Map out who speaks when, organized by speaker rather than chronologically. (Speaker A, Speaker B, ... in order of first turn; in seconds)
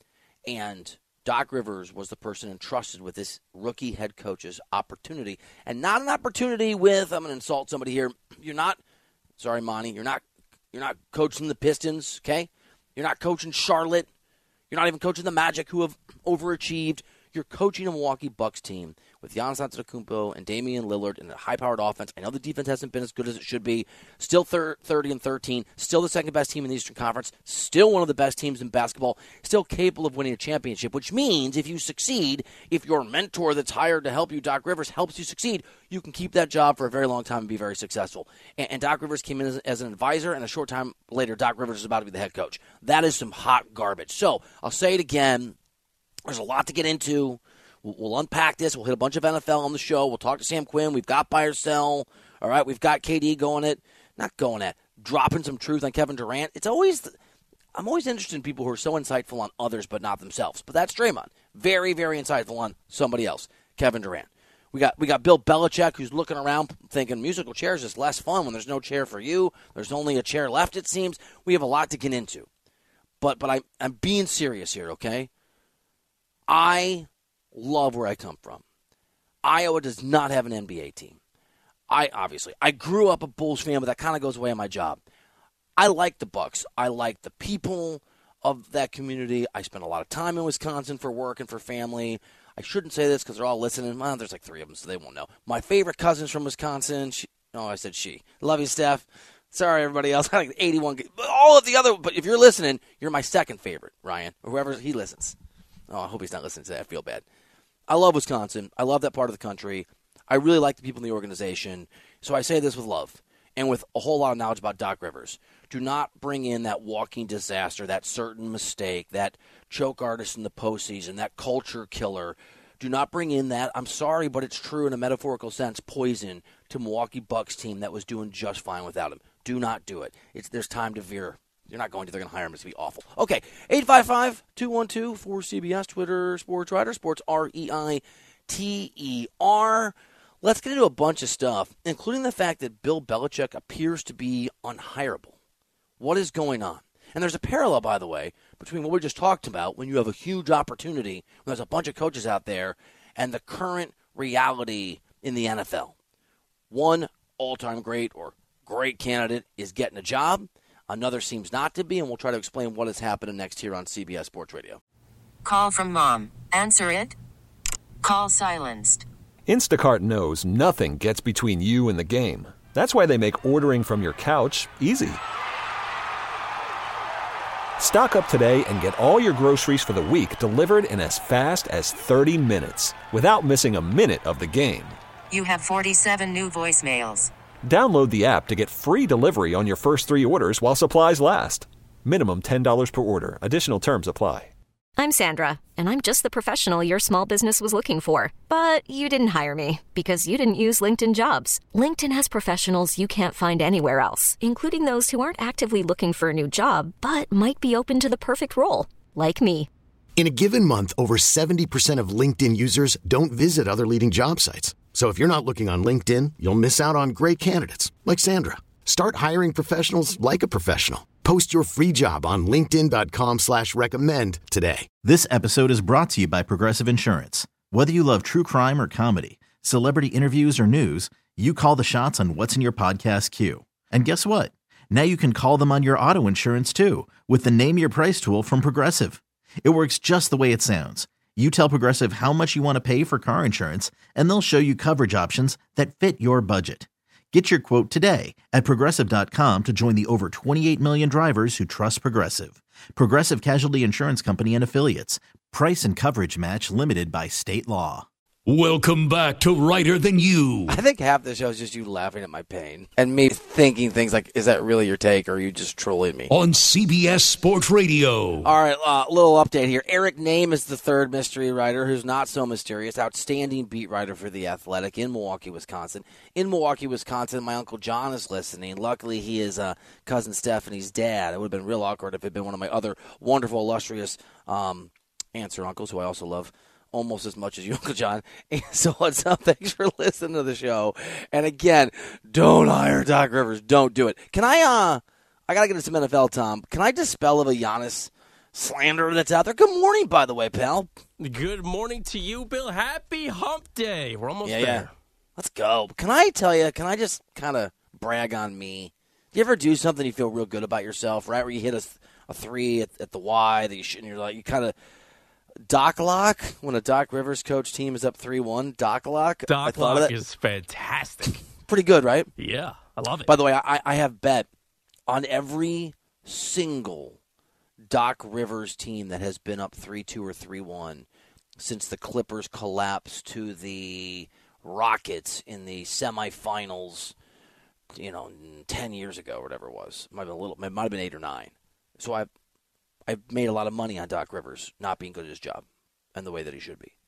Speaker A: 0.5-8.8, 9.4-14.1, 14.7-45.5, 46.2-57.1, 57.7-72.5, 73.2-75.3, 76.5-78.6, 79.4-81.2, 81.9-85.0, 85.8-105.3, 105.9-107.2, 107.9-145.3, 146.0-155.9, 156.7-164.8, 260.7-266.3, 268.4-300.9, 304.4-314.7, 315.7-320.1, 321.7-322.3, 323.2-324.5, 325.1-327.2, 327.9-331.1, 331.6-337.1, 337.9-342.3, 343.1-345.6, 346.1-346.9
Speaker B: 165.4-167.2, 168.0-169.1, 185.3-187.3
Speaker C: 169.4-175.2, 177.8-185.0, 187.6-194.5
Speaker D: 195.0-209.7
Speaker E: 210.2-224.9
Speaker F: 225.0-258.1
Speaker G: 258.4-260.8, 266.3-268.4
Speaker H: 301.2-304.9, 319.5-321.4, 322.4-323.3